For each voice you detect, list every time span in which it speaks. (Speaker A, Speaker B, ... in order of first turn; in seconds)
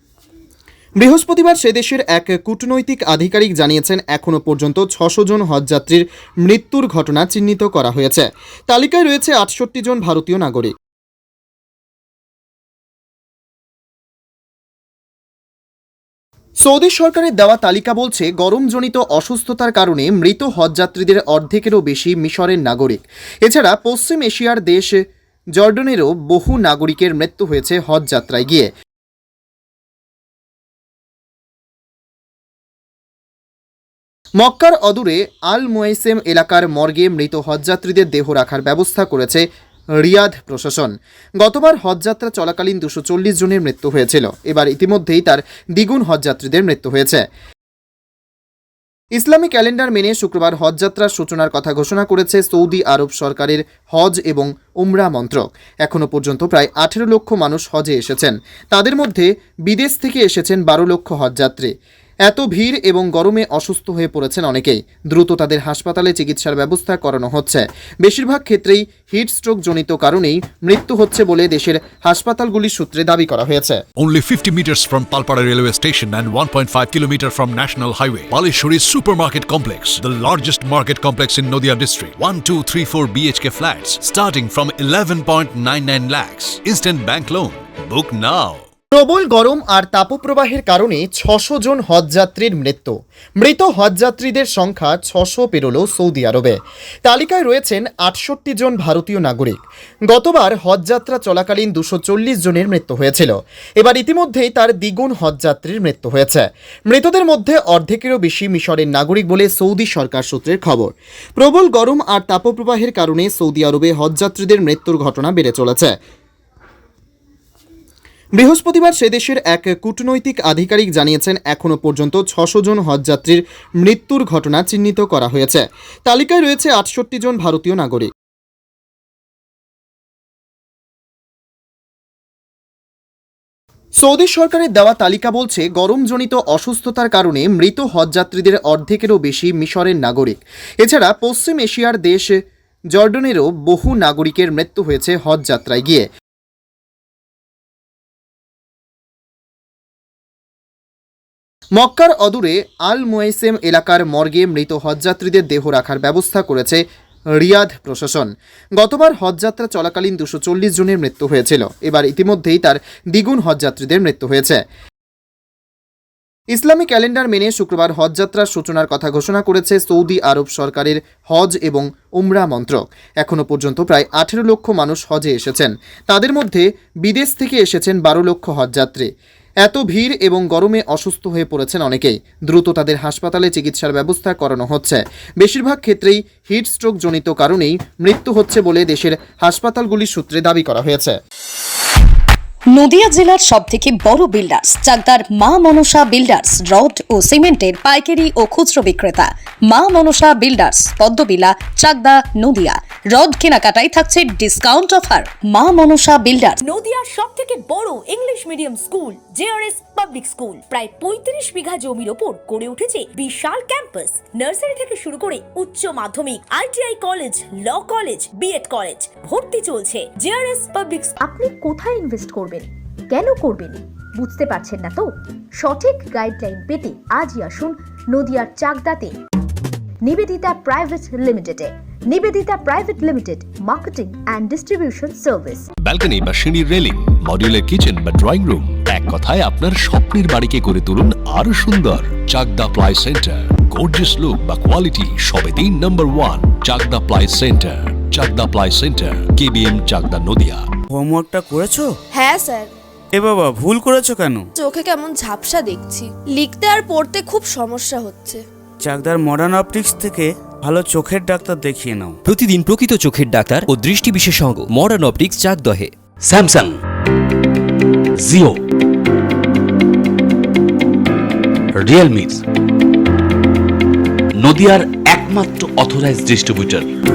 Speaker A: 1.0-10.7, 16.6-25.0, 25.6-28.7, 34.4-39.5, 40.0-47.2, 49.2-61.7, 62.3-73.8, 88.9-99.6, 100.1-115.9, 118.4-128.1, 134.0-142.4, 142.9-146.1, 151.8-156.8, 157.4-164.6, 166.5-179.1, 179.6-191.2
Speaker B: 74.0-88.6
Speaker C: 192.7-206.6
Speaker D: 206.6-221.2
Speaker E: 221.2-229.1, 230.0-235.7
Speaker F: 235.8-250.6
Speaker G: 250.9-251.9, 253.1-254.4, 258.8-262.2
Speaker H: 252.2-252.7, 254.6-258.4
Speaker I: 262.3-265.9
Speaker J: 266.3-266.7, 268.3-268.5, 271.8-272.4, 274.4-276.9